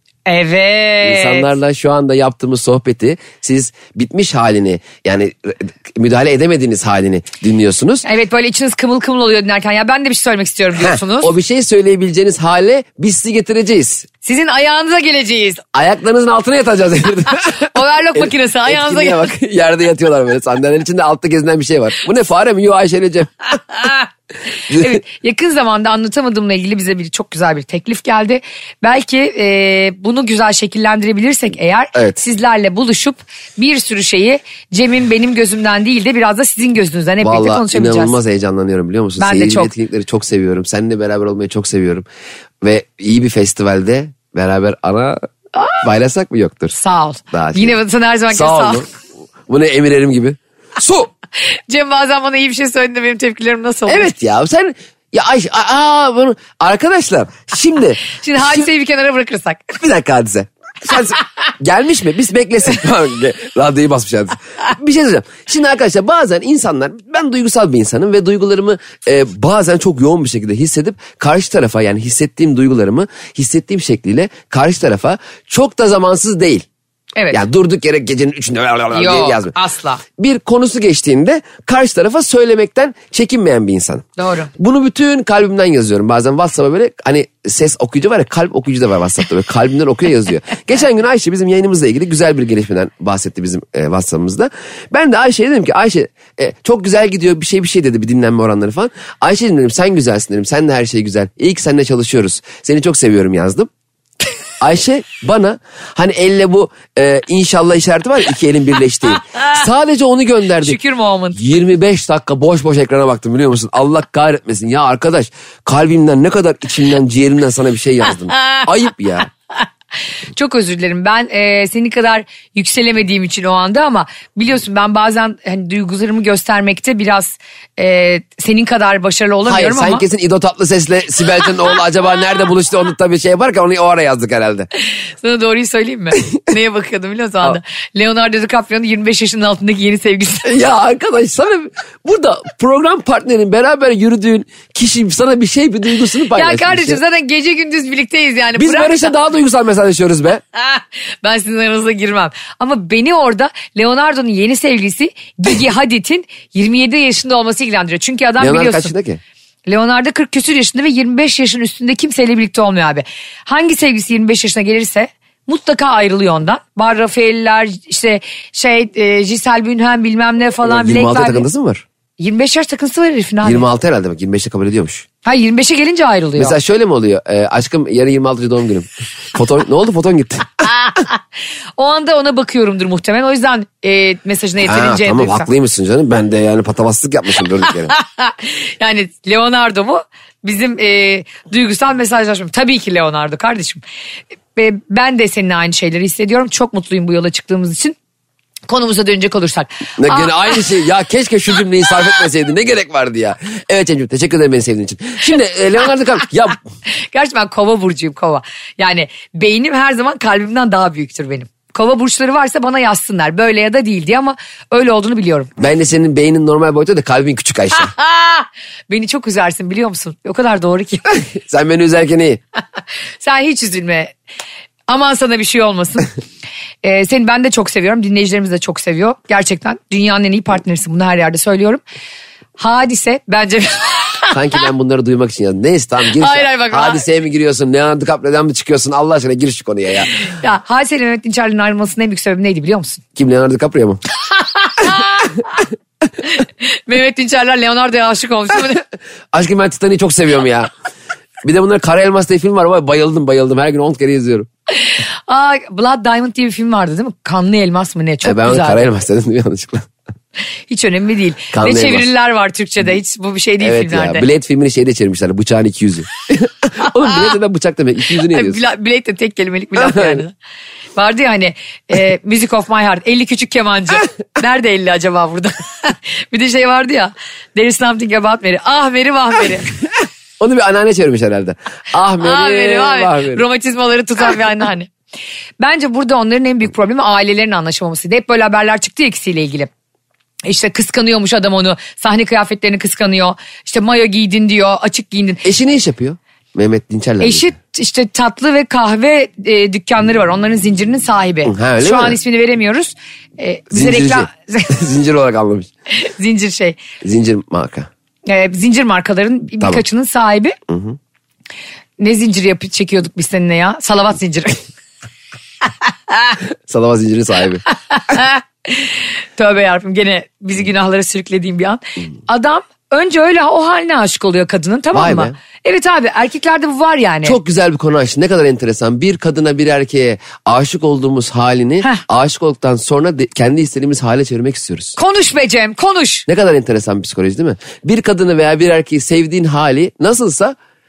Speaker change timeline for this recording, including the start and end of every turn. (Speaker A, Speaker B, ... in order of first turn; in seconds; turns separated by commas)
Speaker A: 0.2-1.5, Speaker B: 1.0-8.0, Speaker A: 8.0-11.3, Speaker B: 10.8-14.1, Speaker A: 14.2-15.6, Speaker B: 15.7-23.6, Speaker A: 17.6-19.2, Speaker A: 23.8-24.0, Speaker B: 24.7-25.0, Speaker A: 24.7-38.2, Speaker B: 37.2-42.0, Speaker A: 39.2-39.7, Speaker B: 42.6-45.3, Speaker B: 45.8-46.8, Speaker A: 46.8-48.8, Speaker B: 47.3-47.8, Speaker B: 48.3-48.9, Speaker B: 49.5-51.1, Speaker A: 51.4-54.1, Speaker B: 53.9-58.6, Speaker A: 58.1-59.8, Speaker B: 59.8-76.7, Speaker B: 77.3-79.5, Speaker A: 78.9-80.0, Speaker B: 80.2-103.7, Speaker A: 84.2-84.5, Speaker B: 104.6-110.8, Speaker A: 110.6-111.4, Speaker B: 111.3-119.3, Speaker A: 120.3-130.0, Speaker B: 129.4-134.7, Speaker A: 135.2-140.5, Speaker B: 140.4-147.0, Speaker A: 146.3-149.1, Speaker B: 148.6-150.4, Speaker A: 150.5-158.9, Speaker B: 158.4-159.2, Speaker A: 159.7-171.4, Speaker B: 170.6-171.8, Speaker A: 172.2-173.7, Speaker B: 173.4-175.1, Speaker A: 175.2-176.6, Speaker B: 176.4-180.7, Speaker A: 180.7-181.1, Speaker A: 181.8-185.5, Speaker B: 184.6-187.9, Speaker A: 187.9-193.8, Speaker A: 194.5-197.9, Speaker A: 198.7-200.6, Speaker B: 200.0-206.6, Speaker A: 207.1-215.5, Speaker B: 215.6-217.9, Speaker A: 217.8-221.1, Speaker B: 221.1-222.4, Speaker A: 223.2-224.1, Speaker A: 224.9-226.1, Speaker A: 226.8-231.8, Speaker A: 232.6-234.3, Speaker B: 234.3-240.1, Speaker A: 236.2-237.0, Speaker A: 240.2-243.0, Speaker B: 243.2-244.0, Speaker A: 244.3-245.6, Speaker A: 246.3-248.8, Speaker B: 249.3-250.7, Speaker B: 251.4-254.5, Speaker A: 254.8-258.8, Speaker B: 258.2-259.9, Speaker A: 260.7-264.2, Speaker B: 261.5-262.1, Speaker B: 263.6-268.6, Speaker A: 268.2-270.3, Speaker B: 269.8-270.2, Speaker A: 270.9-279.7, Speaker B: 280.4-283.4, Speaker A: 282.2-284.9, Speaker A: 285.6-289.7, Speaker A: 290.4-295.4, Speaker B: 295.4-297.5, Speaker A: 297.2-304.8, Speaker B: 301.4-302.2, Speaker B: 303.7-305.7, Speaker A: 305.9-306.8, Speaker B: 307.0-307.9, Speaker A: 308.3-310.6, Speaker B: 310.7-311.0, Speaker A: 312.0-314.6, Speaker B: 316.6-317.6, Speaker A: 317.7-327.4, Speaker B: 324.9-325.3, Speaker B: 327.2-335.0, Speaker A: 335.0-336.2, Speaker B: 336.3-340.6